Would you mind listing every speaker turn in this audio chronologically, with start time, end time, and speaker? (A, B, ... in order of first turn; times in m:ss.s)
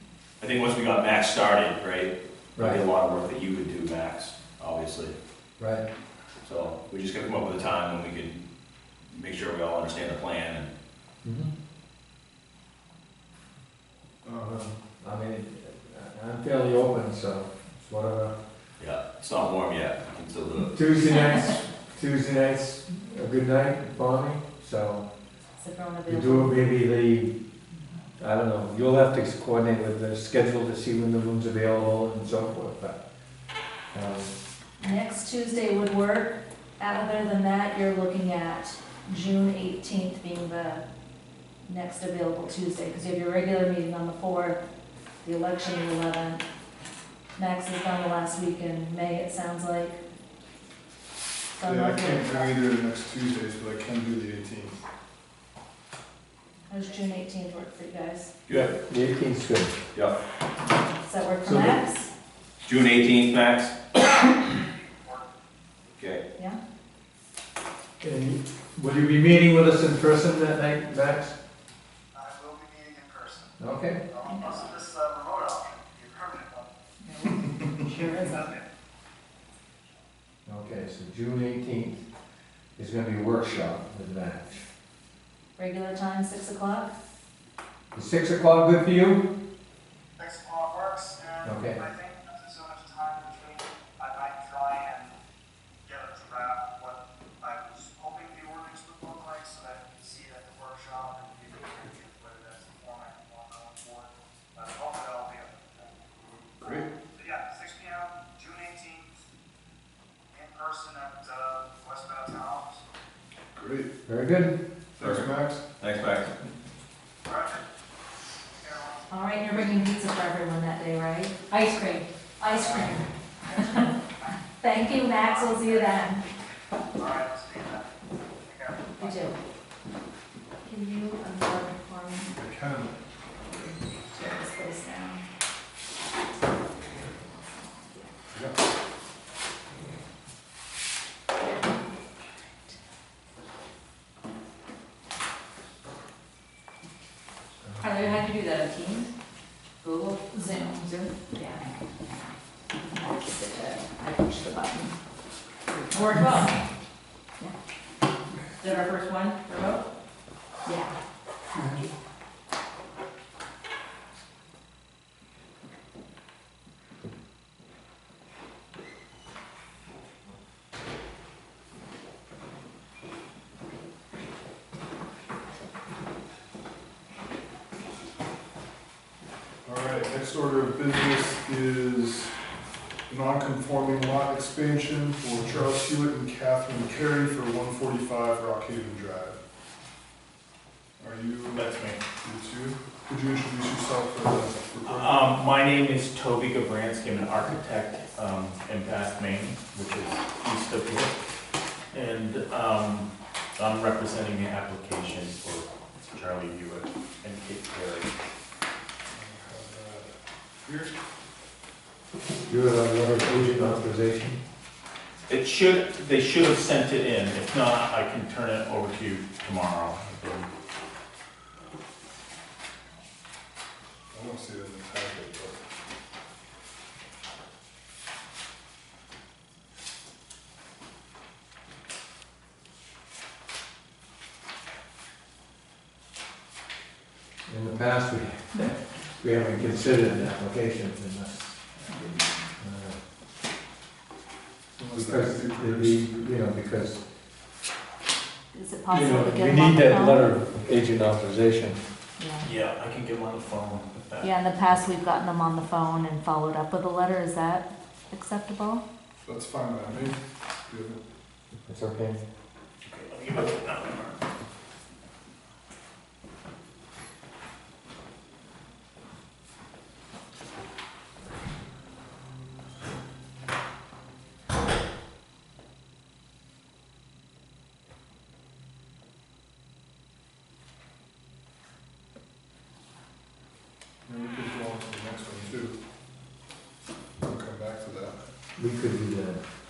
0:00.4-0:05.1 A
0:02.6-0:02.8 B
0:05.6-0:05.8 B
0:06.4-0:08.4 A
0:09.1-0:10.7 A
0:11.2-0:11.5 B
0:14.2-0:14.7 C
0:15.0-0:18.3 B
0:18.8-0:20.7 A
0:20.7-0:25.0 B
0:25.6-0:26.6 D
0:26.1-0:27.3 B
0:28.2-0:33.0 B
0:33.9-0:34.3 B
0:34.8-0:40.8 D
0:41.7-0:44.6 D
0:45.2-0:46.4 D
0:47.4-0:50.0 D
0:51.6-0:52.5 D
0:51.6-0:54.8 C
0:56.7-0:58.3 D
0:58.5-0:59.8 B
1:01.0-1:02.1 D
1:01.4-1:01.8 B
1:02.6-1:03.8 A
1:04.6-1:05.3 E
1:05.9-1:06.2 A
1:08.0-1:11.4 B
1:12.1-1:16.7 E
1:13.6-1:14.0 B
1:14.3-1:14.7 D
1:17.0-1:18.4 D
1:18.1-1:18.6 E
1:20.4-1:22.0 B
1:22.8-1:24.6 B
1:25.6-1:26.9 D
1:27.9-1:29.3 B
1:30.2-1:35.2 E
1:31.4-1:31.8 B
1:35.8-1:49.2 E
1:46.6-1:46.9 C
1:50.3-1:52.8 E
1:53.6-1:53.9 C
1:54.0-1:54.6 B
1:55.0-1:55.6 C
1:55.0-1:55.3 A
1:55.8-1:56.3 A
1:57.2-1:57.6 E
1:58.5-1:59.2 E
1:59.1-2:01.5 D
2:01.5-2:02.0 F
2:02.4-2:03.0 D
2:02.4-2:04.3 E
2:03.6-2:03.9 D
2:04.5-2:06.2 D
2:04.9-2:06.0 E
2:06.8-2:09.3 E
2:09.0-2:09.4 D
2:10.6-2:12.3 D
2:12.3-2:12.9 C
2:13.5-2:15.2 D
2:18.3-2:18.6 C
2:27.7-2:28.2 B
2:27.8-2:29.1 F
2:29.8-2:31.3 F
2:30.3-2:31.6 D
2:32.9-2:34.9 D
2:35.8-2:36.5 F
2:35.9-2:36.5 D
2:38.6-2:39.8 F
2:40.6-2:40.9 D
2:59.6-3:02.3 C
3:03.1-3:09.4 C
3:11.0-3:15.3 C
3:11.5-3:12.0 G
3:14.8-3:21.2 G
3:21.9-3:28.1 G
3:29.1-3:30.9 C
3:32.5-3:34.4 B
3:35.3-3:40.5 G
3:44.1-3:45.6 C
3:57.5-4:01.6 B
4:02.6-4:03.0 B
4:04.8-4:06.5 C
4:04.9-4:07.0 B
4:08.5-4:10.3 D
4:08.9-4:11.8 B
4:12.2-4:12.5 D
4:12.4-4:14.3 G
4:14.2-4:18.8 D
4:19.2-4:20.2 C
4:20.7-4:21.0 C
4:21.5-4:22.2 B
4:22.8-4:24.2 G
4:44.0-4:45.8 C
4:47.2-4:48.2 C
4:48.6-4:49.4 B